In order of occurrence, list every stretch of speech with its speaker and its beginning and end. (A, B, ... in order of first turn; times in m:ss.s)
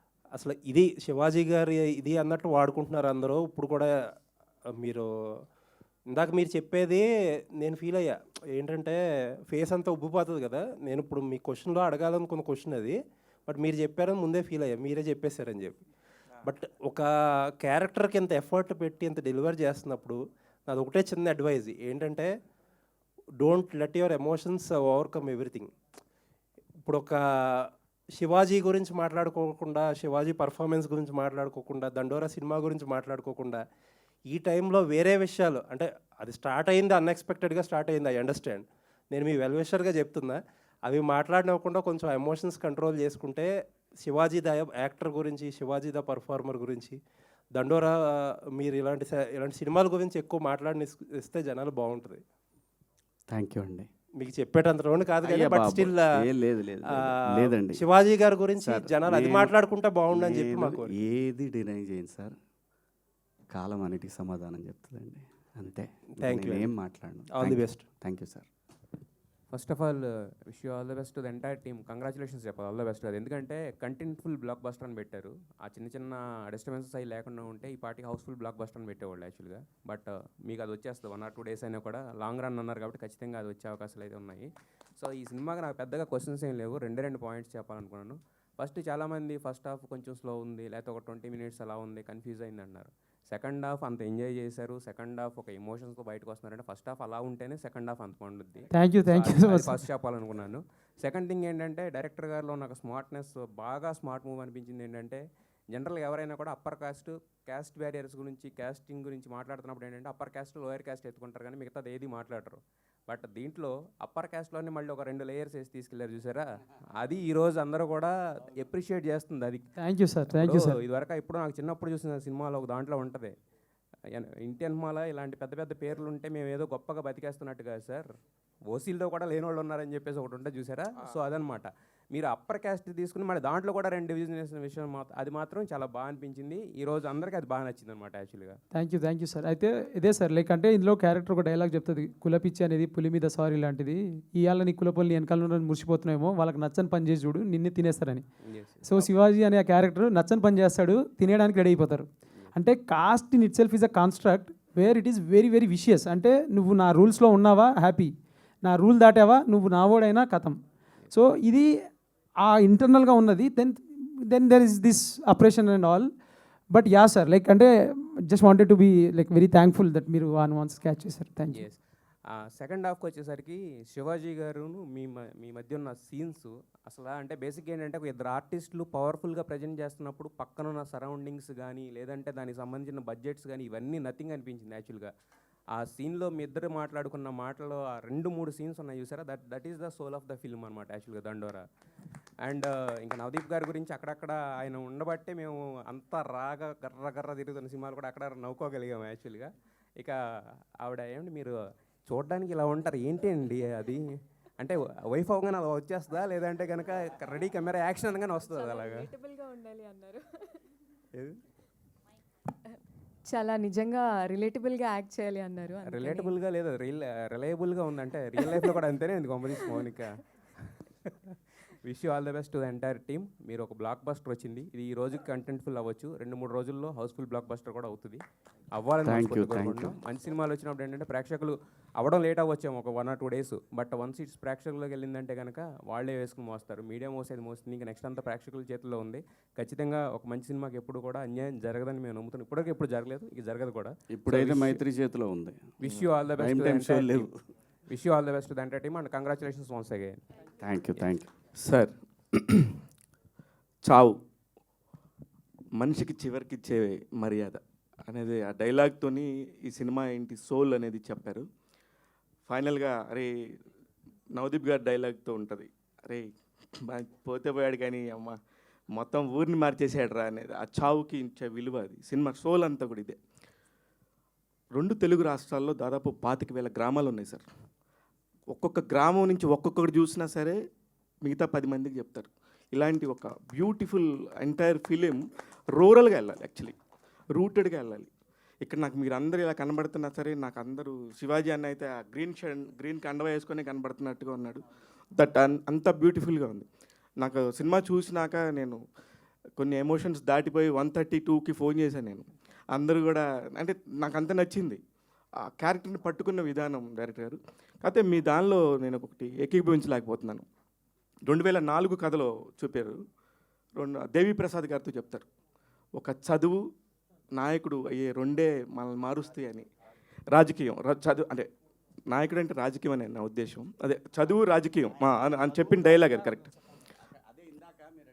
0:00.4-0:03.9 A
0:04.7-0:05.1 A
0:06.1-0:07.1 A
0:07.6-0:13.0 A
0:13.5-0:15.8 A
0:16.4-0:17.1 A
0:17.6-0:22.3 A
0:23.4-0:25.7 A
0:26.8-0:33.6 A
0:34.3-0:43.5 A
0:44.0-0:47.0 A
0:47.6-0:52.2 A
0:53.3-0:53.9 B
0:54.2-0:56.1 A
0:55.2-0:57.8 B
0:57.0-1:00.9 A
0:58.6-0:59.5 B
1:00.1-1:02.4 B
1:03.5-1:08.5 B
1:06.2-1:06.7 A
1:07.3-1:07.8 A
1:09.5-1:56.5 C
1:38.7-1:39.8 D
1:57.0-1:59.7 C
1:59.8-2:00.8 D
2:00.3-2:03.3 C
2:04.1-2:08.1 C
2:08.7-2:18.6 C
2:18.7-2:28.2 D
2:28.5-2:29.1 C
2:28.8-2:38.1 D
2:38.6-2:40.6 D
2:41.1-2:41.7 D
2:42.4-2:46.1 D
2:46.7-2:51.6 D
2:51.5-2:51.8 C
2:52.4-3:05.1 C
3:05.7-3:11.6 C
3:12.4-3:20.2 C
3:20.8-3:21.5 C
3:22.1-3:29.1 C
3:28.4-3:30.6 E
3:33.2-3:36.3 E
3:35.8-3:41.1 C
3:38.4-3:38.7 E
3:39.6-3:39.8 E
3:41.8-3:48.2 C
3:48.8-4:04.8 C
3:49.0-3:50.0 B
4:04.1-4:05.8 B
4:05.8-4:07.3 C
4:06.4-4:07.3 B
4:07.9-4:10.2 C
4:10.6-4:11.3 B
4:11.6-4:12.8 F
4:13.9-4:14.2 F
4:15.8-4:21.4 F
4:22.5-4:23.3 F
4:24.3-4:28.4 F
4:28.9-4:33.2 F
4:34.8-4:37.5 F
4:38.5-4:40.6 F
4:41.2-4:45.2 F
4:45.8-4:46.8 F
4:47.4-4:48.1 F
4:48.6-4:54.6 F
4:55.2-4:56.7 F
4:57.2-4:58.8 F
4:59.6-5:04.8 F
5:05.4-5:10.4 F
5:11.3-5:13.0 F
5:13.8-5:15.3 F
5:16.0-5:16.6 F
5:17.4-5:19.7 F
5:20.3-5:21.5 F
5:22.1-5:26.5 F